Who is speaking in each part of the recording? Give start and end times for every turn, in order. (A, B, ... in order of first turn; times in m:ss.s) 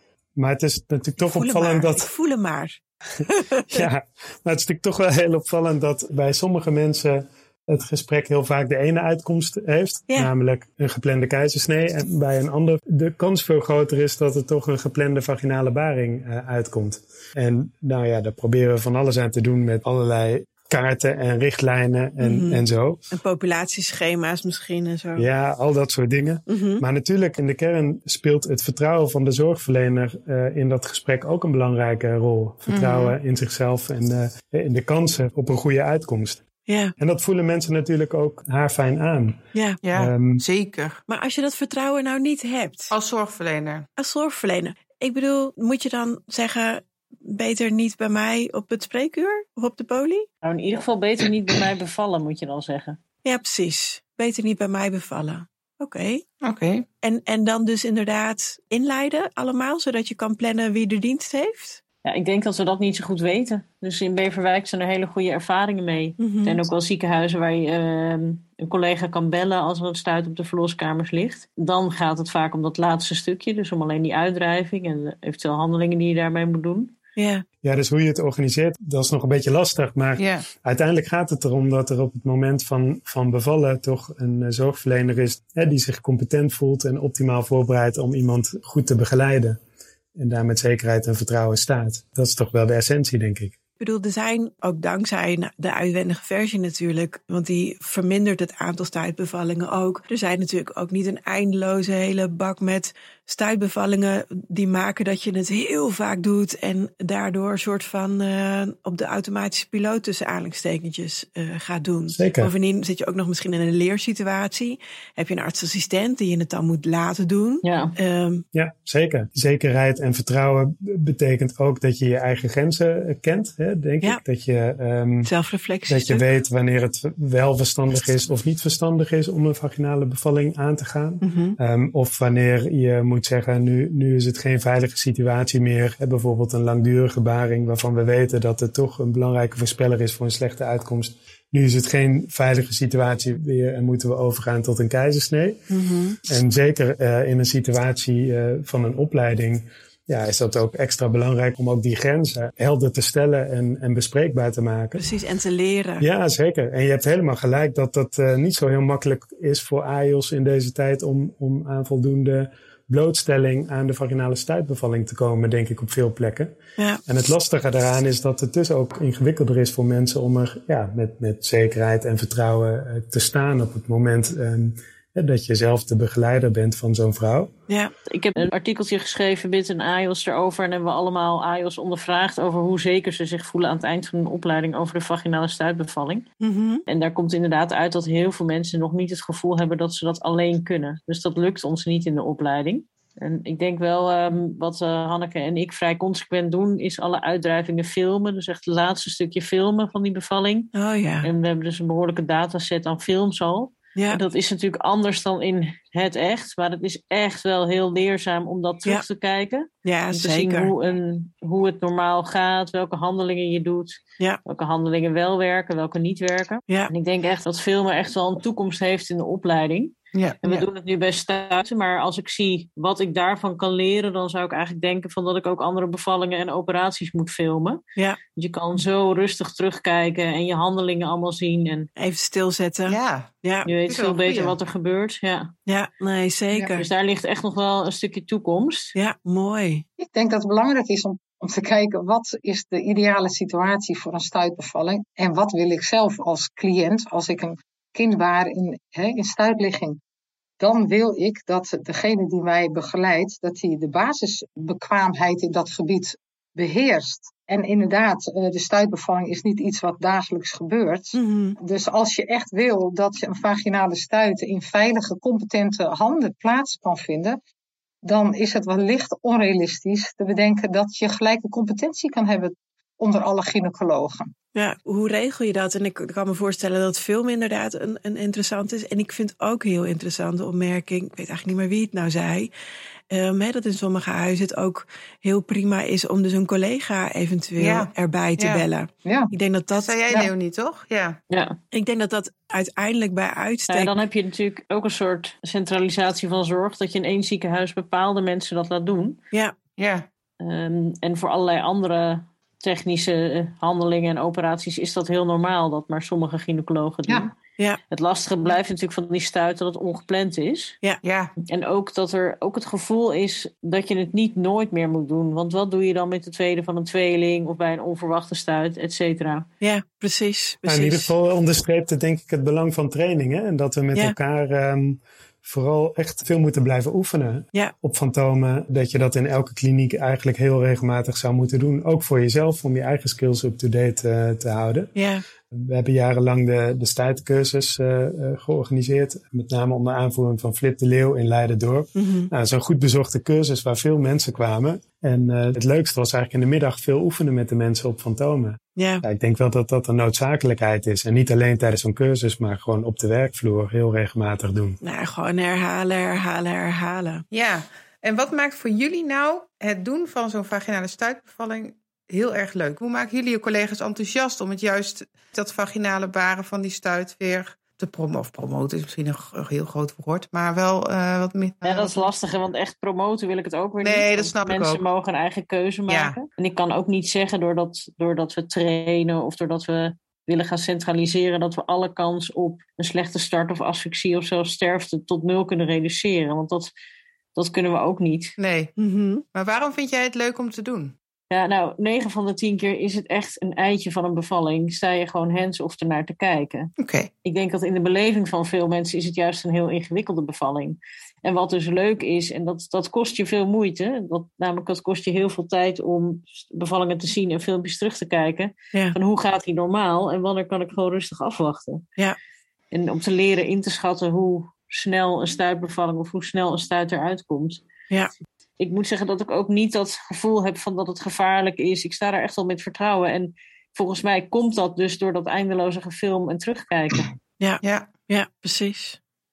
0:00.4-0:02.1 A
0:01.2-0:03.9 B
0:03.7-0:23.0 A
0:22.2-0:25.3 B
0:25.2-0:36.4 A
0:26.5-0:26.8 B
0:32.7-0:33.2 C
0:36.6-0:36.9 B
0:37.0-0:40.4 A
0:39.5-0:39.8 B
0:39.8-0:41.0 C
0:41.1-0:42.9 B
0:42.9-0:43.9 C
0:44.0-0:50.3 B
0:50.4-0:53.0 D
0:53.2-0:56.2 B
0:56.4-0:56.8 C
0:57.0-1:01.8 B
1:02.0-1:17.0 D
1:06.2-1:06.6 B
1:17.2-1:17.4 B
1:17.6-1:29.6 A
1:20.2-1:20.4 C
1:30.2-1:33.6 A
1:33.8-1:58.4 B
1:52.1-1:52.5 A
1:57.6-1:57.9 D
1:58.5-2:05.3 A
2:05.2-2:06.2 B
2:05.9-2:25.7 A
2:11.2-2:11.6 B
2:25.7-2:26.2 B
2:26.2-2:35.0 A
2:35.0-2:36.0 B
2:36.0-2:57.5 A
2:58.1-3:06.2 D
3:06.4-3:06.8 B
3:06.9-3:47.8 D
3:20.7-3:21.3 B
3:23.9-3:24.2 B
3:29.8-3:30.7 B
3:40.1-3:40.6 C
3:48.4-3:51.9 D
3:52.0-3:53.7 B
3:52.9-3:53.3 C
3:53.6-3:55.5 D
3:53.9-3:54.6 C
3:55.7-3:56.9 B
3:56.7-3:58.9 D
3:58.9-3:59.8 B
4:00.0-4:10.0 E
4:10.6-4:27.4 E
4:21.1-4:21.6 B
4:28.0-4:34.3 E
4:34.5-4:42.5 B
4:43.1-4:50.0 B
4:47.6-4:48.6 C
4:49.0-4:49.3 E
4:49.7-4:51.2 C
4:51.3-4:51.6 D
4:51.7-4:53.9 B
4:53.7-4:59.2 D
4:59.8-5:00.0 C
5:00.4-5:07.4 D
5:07.9-5:10.8 D
5:11.0-5:11.3 C
5:11.4-5:19.5 D
5:19.6-5:21.1 B
5:20.6-5:34.9 A
5:35.0-5:35.2 B
5:35.5-5:54.8 A
5:41.9-5:42.3 B
5:48.7-5:49.0 B
5:54.8-5:57.2 B
5:57.3-6:12.1 C
6:11.6-6:26.7 D
6:13.8-6:14.8 C
6:15.9-6:16.2 C
6:27.4-6:28.4 D
6:28.4-6:28.7 C
6:28.8-6:29.2 B
6:29.3-6:30.9 C
6:31.3-6:36.7 D
6:36.8-6:37.1 C
6:37.2-6:51.8 D
6:52.7-6:57.6 D
6:58.6-7:07.1 D
7:07.4-7:09.0 B
7:07.6-7:07.9 C